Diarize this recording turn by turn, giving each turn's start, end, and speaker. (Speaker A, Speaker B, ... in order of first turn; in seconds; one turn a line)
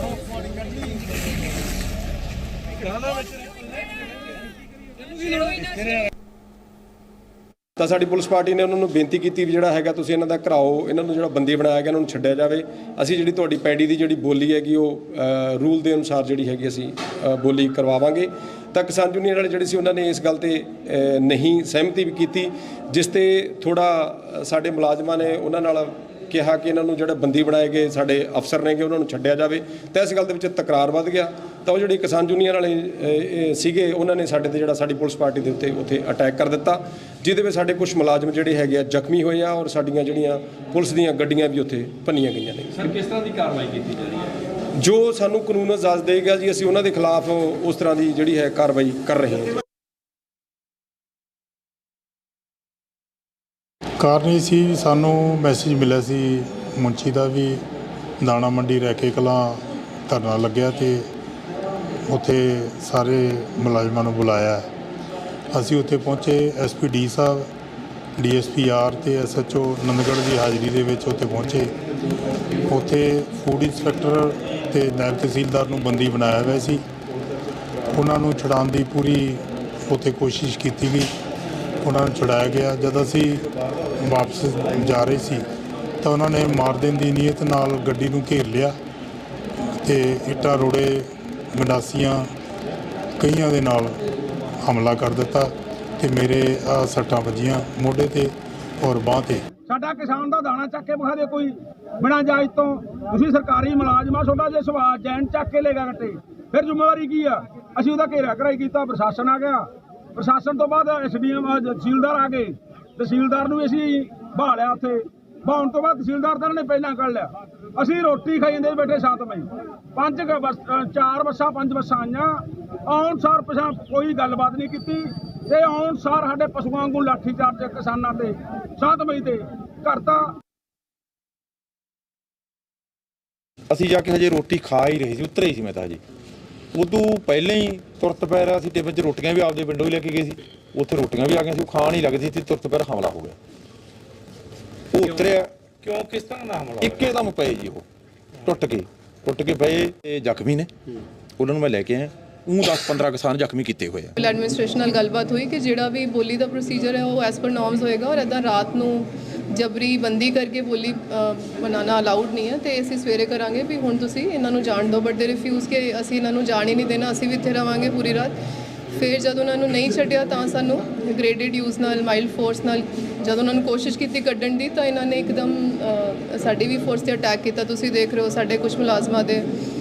Speaker A: 7.8-43.2
Speaker B: 43.2-44.0
Speaker A: 44.8-49.6
Speaker C: 54.0-57.6
Speaker C: 58.2-61.1
Speaker C: 62.1-64.7
Speaker C: 65.5-67.5
Speaker C: 68.2-71.7
Speaker C: 72.7-76.8
Speaker C: 77.9-81.1
Speaker C: 81.8-83.5
Speaker C: 84.0-85.4
Speaker C: 86.0-88.7
Speaker C: 89.8-92.3
Speaker C: 93.2-94.0
Speaker C: 94.6-99.5
Speaker D: 99.7-130.2
Speaker E: 133.7-136.0
Speaker E: 136.8-143.4
Speaker E: 144.9-145.5
Speaker B: 145.8-146.9
Speaker E: 146.8-147.8
Speaker E: 148.4-150.7
Speaker E: 151.4-154.1
Speaker F: 154.2-168.3
Speaker F: 169.0-179.5